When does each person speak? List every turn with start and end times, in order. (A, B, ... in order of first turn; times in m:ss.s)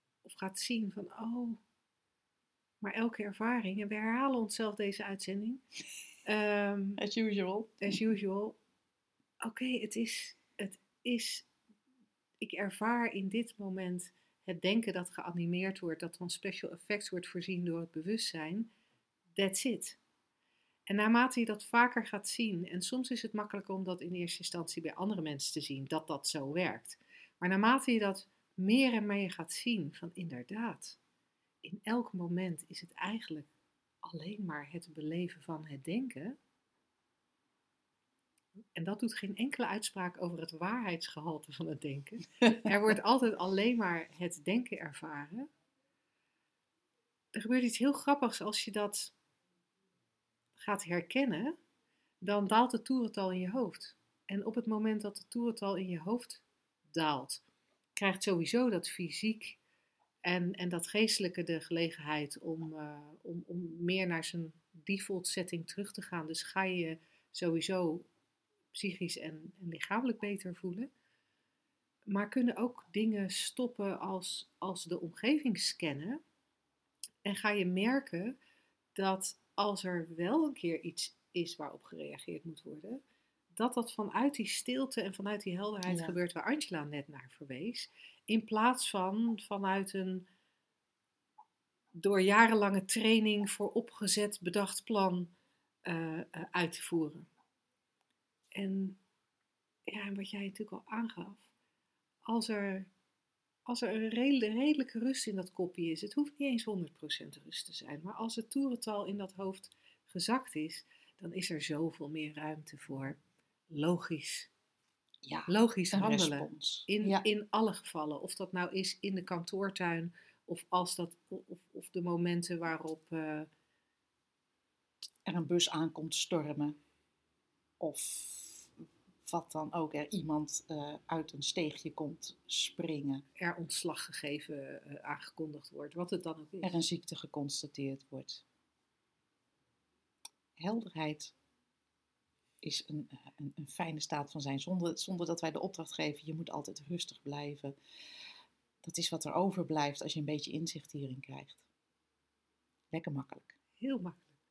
0:00.2-0:01.6 A
0:02.8-0:05.6 A
0:06.2-0:07.0 A
0:07.0-0:08.0 B
0:07.8-0:08.6 A
0:09.4-0:11.5 A
0:12.4-0:18.7 A
0:19.3-0:20.0 A
0:20.9-0:31.0 A
0:31.6-0:33.5 A
0:34.0-0:36.4 A
0:38.7-0:45.5 A
0:47.3-0:49.1 A
0:50.6-0:51.6 A
0:52.2-0:57.4 A
0:58.0-0:59.6 A
1:00.2-1:08.1 A
1:08.7-1:10.9 A
1:12.1-1:16.2 A
1:17.2-1:18.4 A
1:18.9-1:23.0 A
1:23.5-1:30.3 A
1:25.9-1:26.1 B
1:31.9-1:35.3 A
1:35.8-1:37.3 A
1:38.5-1:39.0 A
1:39.9-1:41.4 A
1:42.3-1:42.9 A
1:43.7-1:53.2 A
1:53.7-1:54.5 A
1:55.2-1:57.2 B
1:55.5-2:03.5 A
2:05.2-2:06.8 B
2:07.8-2:08.7 B
2:09.2-2:13.2 B
2:13.4-2:16.8 A
2:16.6-2:18.4 B
2:20.6-2:21.3 B
2:22.6-2:27.8 B
2:28.8-2:31.6 B
2:32.9-2:33.5 B
2:33.8-2:34.3 A